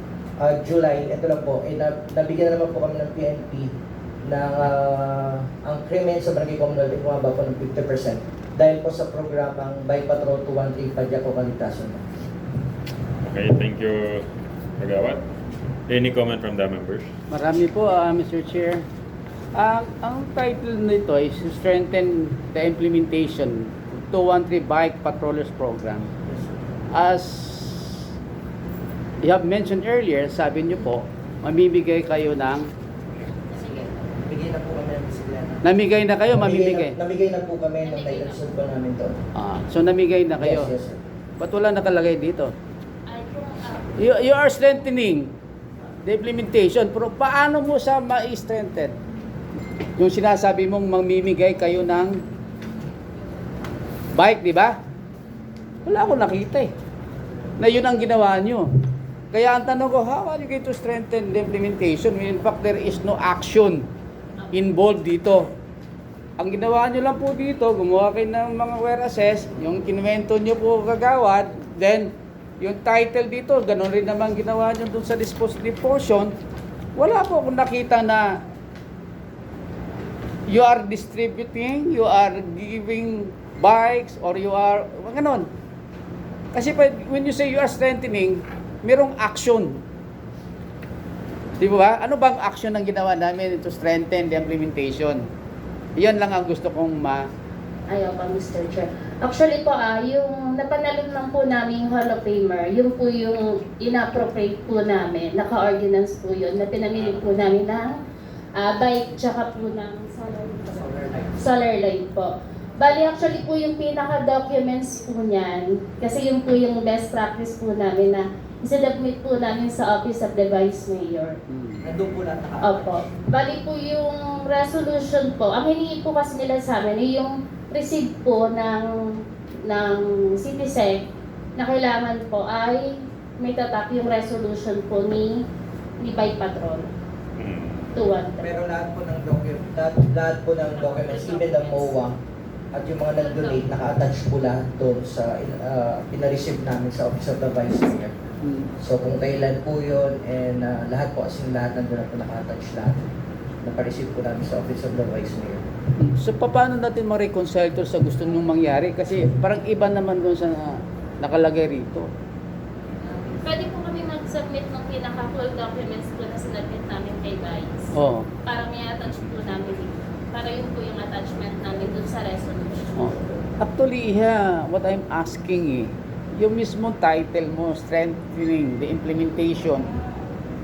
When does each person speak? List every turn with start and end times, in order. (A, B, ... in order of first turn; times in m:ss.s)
0:00.4-0:03.7 A
0:04.2-0:12.1 A
0:13.2-0:14.3 B
0:14.8-0:15.2 B
0:15.9-0:17.1 B
0:17.3-0:18.8 C
0:19.5-0:26.1 C
0:26.9-0:28.1 C
0:29.2-0:32.7 C
0:33.5-0:34.1 D
0:33.5-0:35.6 A
0:35.6-0:37.0 C
0:36.3-0:39.2 A
0:37.8-0:38.4 D
0:39.3-0:40.7 C
0:40.4-0:41.0 A
0:41.4-0:42.5 C
0:43.1-0:44.0 D
0:44.0-0:45.3 C
0:46.0-0:48.9 C
0:50.0-0:52.2 C
0:54.1-0:54.8 C
0:55.8-0:56.7 C
0:57.6-0:58.7 C
0:59.3-1:03.8 C
1:04.5-1:05.5 C
1:06.4-1:16.3 C
1:16.9-1:18.4 C
1:20.5-1:25.5 C
1:26.5-1:29.8 C
1:31.6-1:35.2 C
1:36.0-1:37.3 C
1:37.9-1:47.9 D
1:48.6-2:01.4 D
1:50.9-1:51.2 A
2:01.5-2:01.9 C
2:01.8-2:03.0 A
2:02.6-2:08.9 D
2:09.6-2:11.0 D
2:11.6-2:15.4 D
2:16.0-2:16.9 D
2:17.4-2:18.0 B
2:18.0-2:18.5 D
2:18.4-2:22.2 A
2:20.7-2:22.0 D
2:22.7-2:28.1 A
2:23.2-2:23.6 D
2:28.4-2:28.7 C
2:28.8-2:33.0 A
2:33.6-2:35.6 A
2:36.0-2:42.1 C
2:43.3-2:47.9 D
2:47.9-2:48.3 C
2:48.4-2:52.9 D
2:52.9-2:59.9 C